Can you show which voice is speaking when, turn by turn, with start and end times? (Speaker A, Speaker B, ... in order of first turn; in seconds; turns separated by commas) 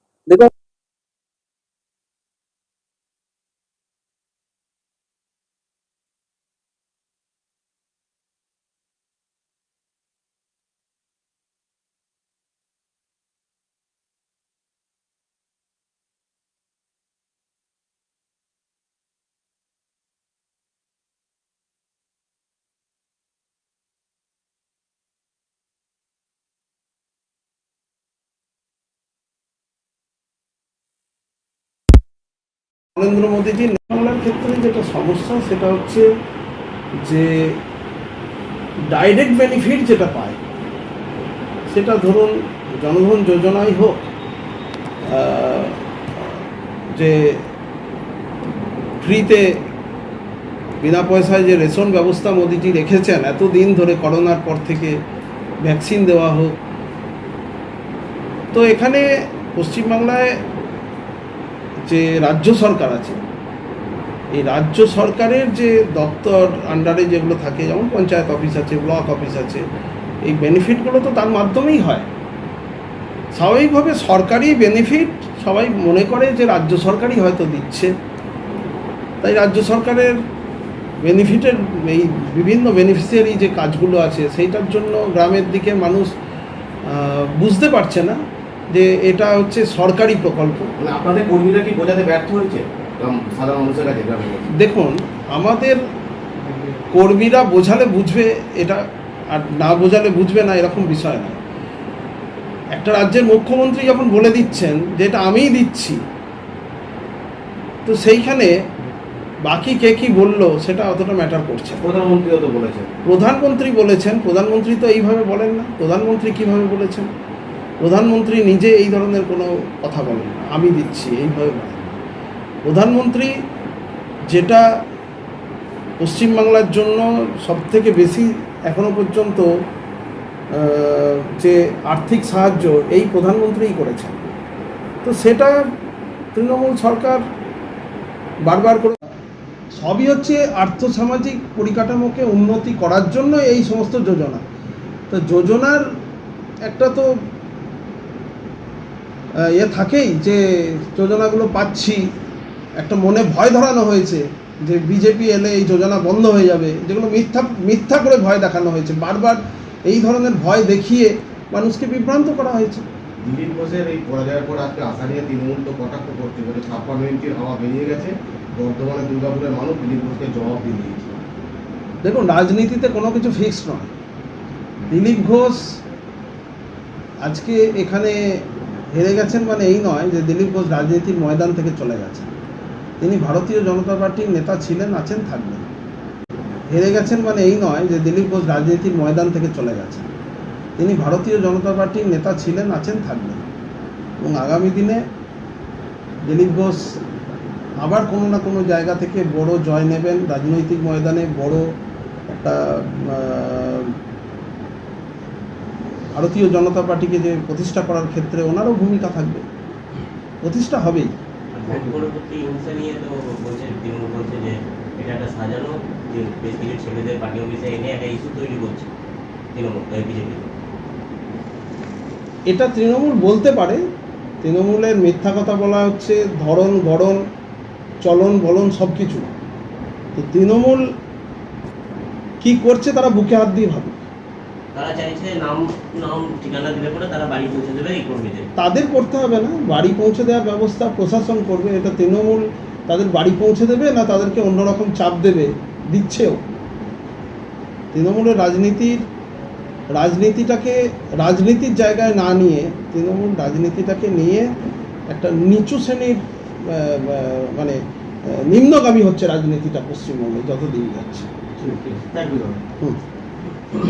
Speaker A: 33.0-36.1, Speaker A: 37.0-37.6, Speaker A: 38.9-40.4, Speaker A: 41.7-44.1, Speaker A: 45.0-46.4, Speaker A: 47.0-47.5, Speaker A: 49.0-49.5, Speaker A: 50.8-55.0, Speaker A: 55.6-56.6, Speaker A: 58.5-60.4, Speaker A: 61.9-63.2, Speaker A: 64.3-69.6, Speaker A: 70.2-72.1, Speaker A: 73.3-77.9, Speaker A: 79.2-80.2, Speaker A: 81.0-86.1, Speaker A: 86.9-88.2, Speaker A: 88.7-90.7, Speaker B: 90.8-94.5, Speaker A: 94.6-95.8, Speaker A: 96.9-101.4, Speaker A: 102.8-106.0, Speaker A: 107.9-108.5, Speaker A: 109.5-111.8, Speaker B: 111.8-112.9, Speaker A: 113.1-117.1, Speaker A: 117.8-122.0, Speaker A: 122.7-123.3, Speaker A: 124.3-124.6, Speaker A: 126.0-129.5, Speaker A: 130.5-134.2, Speaker A: 135.0-135.6, Speaker A: 136.3-137.2, Speaker A: 138.5-139.0, Speaker A: 139.7-144.4, Speaker A: 145.1-145.9, Speaker A: 146.6-147.2, Speaker A: 149.5-152.1, Speaker A: 152.8-162.8, Speaker B: 163.2-171.1, Speaker A: 172.0-173.9, Speaker A: 174.9-175.8, Speaker A: 177.2-178.4, Speaker A: 178.9-182.3, Speaker A: 183.0-185.7, Speaker A: 186.7-190.1, Speaker A: 190.8-193.4, Speaker A: 194.2-195.0, Speaker A: 196.2-197.0, Speaker A: 197.8-201.6, Speaker A: 202.3-204.0, Speaker A: 206.1-209.4, Speaker A: 210.4-211.1, Speaker C: 211.5-218.9, Speaker C: 219.5-220.5, Speaker A: 222.5-223.8, Speaker A: 224.4-227.2, Speaker A: 228.0-229.3, Speaker A: 230.2-230.8, Speaker A: 232.4-234.1, Speaker C: 234.7-238.5, Speaker A: 238.6-246.4, Speaker A: 247.9-249.0, Speaker A: 249.9-254.5, Speaker A: 255.1-261.3, Speaker C: 261.6-262.6